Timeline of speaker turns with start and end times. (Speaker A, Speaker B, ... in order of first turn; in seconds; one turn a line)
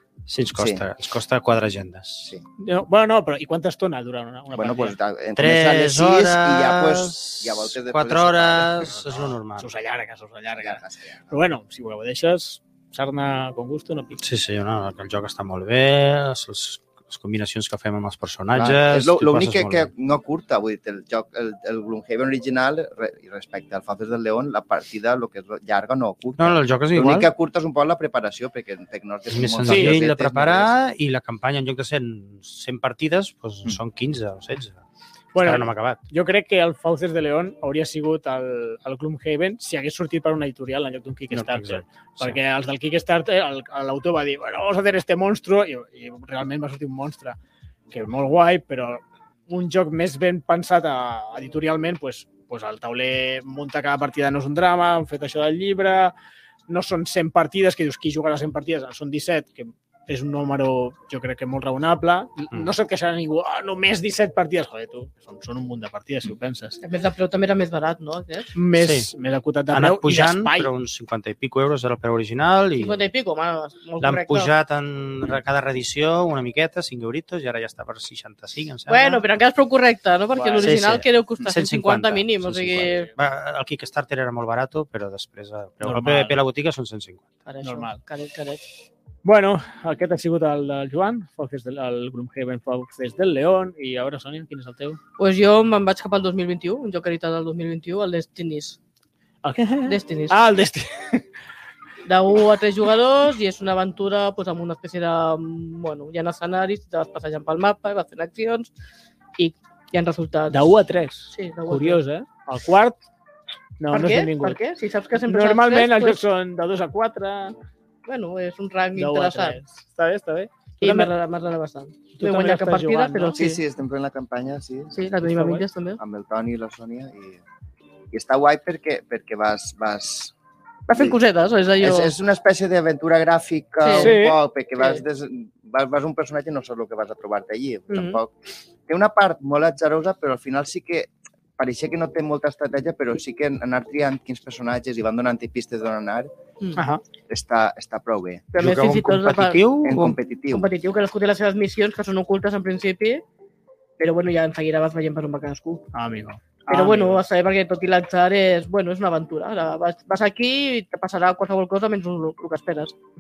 Speaker A: 0.3-2.4
Speaker B: 0.6-0.8
Speaker C: 2.6-5.0
Speaker B: 4.5-9.3
Speaker A: 5.4-9.7
Speaker C: 9.2-14.2
Speaker B: 10.6-11.3
Speaker A: 14.2-19.9
Speaker B: 18.5-30.7
Speaker A: 26.4-27.3
Speaker A: 29.3-34.8
Speaker C: 29.7-30.1
Speaker C: 35.3-47.4
Speaker A: 35.4-36.0
Speaker A: 41.3-42.4
Speaker C: 47.9-56.1
Speaker C: 56.7-66.8
Speaker D: 66.8-68.5
Speaker C: 68.5-70.7
Speaker A: 68.8-69.1
Speaker A: 69.7-73.0
Speaker D: 72.8-74.5
Speaker A: 74.0-79.3
Speaker D: 78.9-83.1
Speaker C: 80.3-80.9
Speaker A: 80.6-87.2
Speaker C: 85.8-86.4
Speaker D: 87.5-88.6
Speaker C: 87.6-88.0
Speaker C: 89.2-95.0
Speaker D: 95.2-98.8
Speaker C: 99.4-101.3
Speaker D: 99.8-100.4
Speaker D: 102.0-108.7
Speaker D: 109.4-110.7
Speaker C: 110.5-113.0
Speaker D: 111.3-112.0
Speaker C: 113.8-114.6
Speaker D: 113.9-116.2
Speaker C: 115.2-117.5
Speaker D: 118.1-119.6
Speaker C: 119.0-121.1
Speaker D: 120.8-123.6
Speaker C: 122.2-123.5
Speaker B: 123.4-125.1
Speaker D: 124.9-126.0
Speaker C: 125.3-125.6
Speaker B: 126.0-127.4
Speaker B: 128.1-130.3
Speaker D: 130.9-132.2
Speaker B: 131.8-138.3
Speaker D: 133.8-134.2
Speaker C: 134.0-134.4
Speaker D: 137.9-138.2
Speaker B: 138.9-146.3
Speaker C: 146.8-147.0
Speaker B: 147.3-148.5
Speaker D: 148.5-149.6
Speaker A: 148.6-150.2
Speaker B: 149.8-150.7
Speaker D: 150.5-153.2
Speaker D: 154.0-155.8
Speaker C: 155.9-157.2
Speaker D: 156.7-162.9